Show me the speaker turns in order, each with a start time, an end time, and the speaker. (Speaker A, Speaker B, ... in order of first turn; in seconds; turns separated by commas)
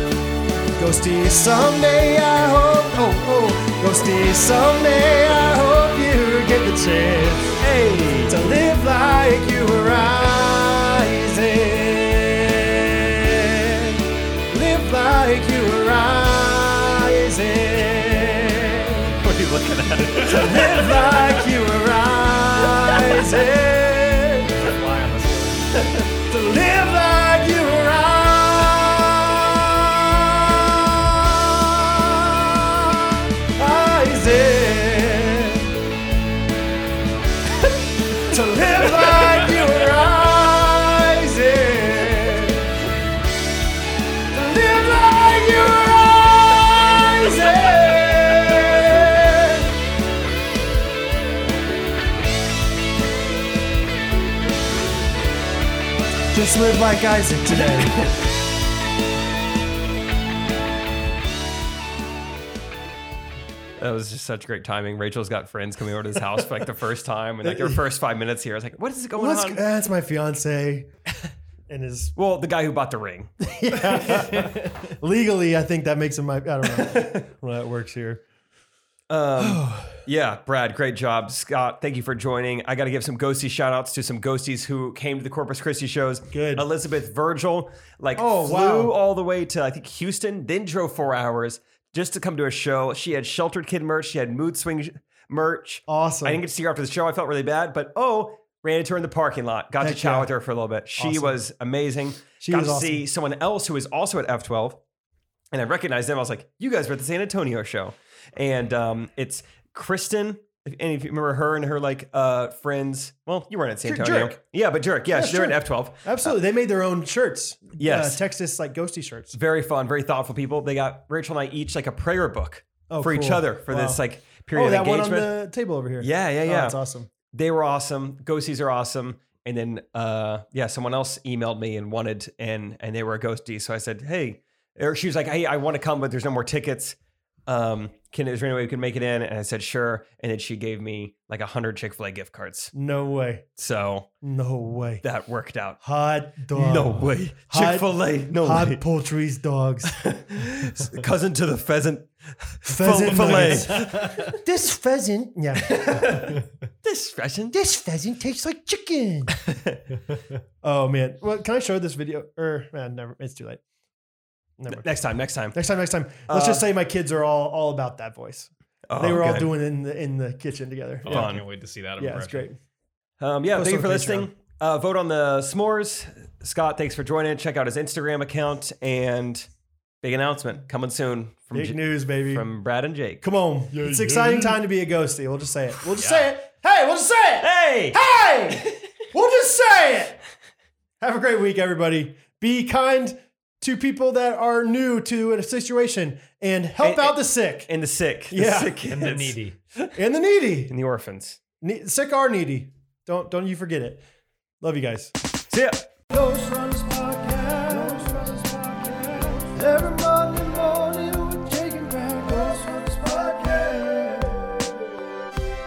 Speaker A: 0.8-7.6, Speaker B: 7.6-8.3, Speaker A: 8.2-19.1, Speaker B: 19.2-21.1, Speaker A: 20.1-24.5, Speaker C: 24.5-25.9, Speaker A: 26.3-35.7, Speaker A: 38.2-42.7, Speaker A: 44.3-49.7, Speaker A: 56.3-58.0, Speaker B: 63.8-69.6, Speaker A: 67.4-67.8, Speaker A: 69.2-70.9, Speaker A: 71.7-72.1, Speaker B: 72.2-73.3, Speaker A: 73.4-78.2, Speaker C: 74.4-74.7, Speaker B: 76.8-77.2, Speaker B: 79.1-104.8, Speaker A: 79.4-79.9, Speaker A: 86.3-86.7, Speaker A: 88.2-89.0, Speaker A: 95.9-96.4, Speaker A: 99.8-100.3, Speaker A: 101.0-101.3, Speaker A: 102.4-103.0, Speaker B: 105.5-116.3, Speaker A: 113.8-114.4, Speaker A: 115.1-119.3, Speaker B: 117.8-118.2, Speaker B: 119.3-125.4, Speaker A: 122.9-127.1, Speaker B: 126.0-126.8, Speaker B: 127.3-142.7, Speaker A: 142.7-143.5, Speaker B: 143.6-144.1, Speaker A: 144.2-145.0, Speaker B: 145.0-145.8, Speaker A: 145.8-150.0, Speaker B: 146.5-148.8, Speaker B: 149.9-154.3, Speaker A: 152.7-156.4, Speaker B: 155.6-157.6, Speaker A: 157.5-159.3, Speaker B: 159.4-159.8, Speaker A: 160.6-163.6, Speaker A: 164.6-164.9, Speaker B: 164.7-165.6, Speaker A: 165.5-171.4, Speaker B: 166.3-166.6, Speaker B: 168.9-169.5, Speaker C: 171.0-172.5, Speaker B: 171.1-171.4, Speaker A: 172.0-172.6, Speaker B: 173.2-179.5, Speaker A: 173.5-174.3, Speaker B: 180.0-183.2, Speaker A: 181.5-182.5, Speaker A: 183.2-190.2, Speaker C: 183.7-184.6, Speaker C: 186.0-186.2, Speaker B: 187.4-188.0, Speaker B: 188.5-188.8, Speaker A: 191.0-197.7, Speaker B: 196.8-199.9, Speaker A: 198.3-199.3, Speaker C: 198.9-199.6, Speaker A: 199.9-200.7, Speaker B: 200.7-201.4, Speaker A: 201.6-204.0, Speaker A: 204.6-205.1, Speaker B: 205.5-205.9, Speaker A: 206.1-215.0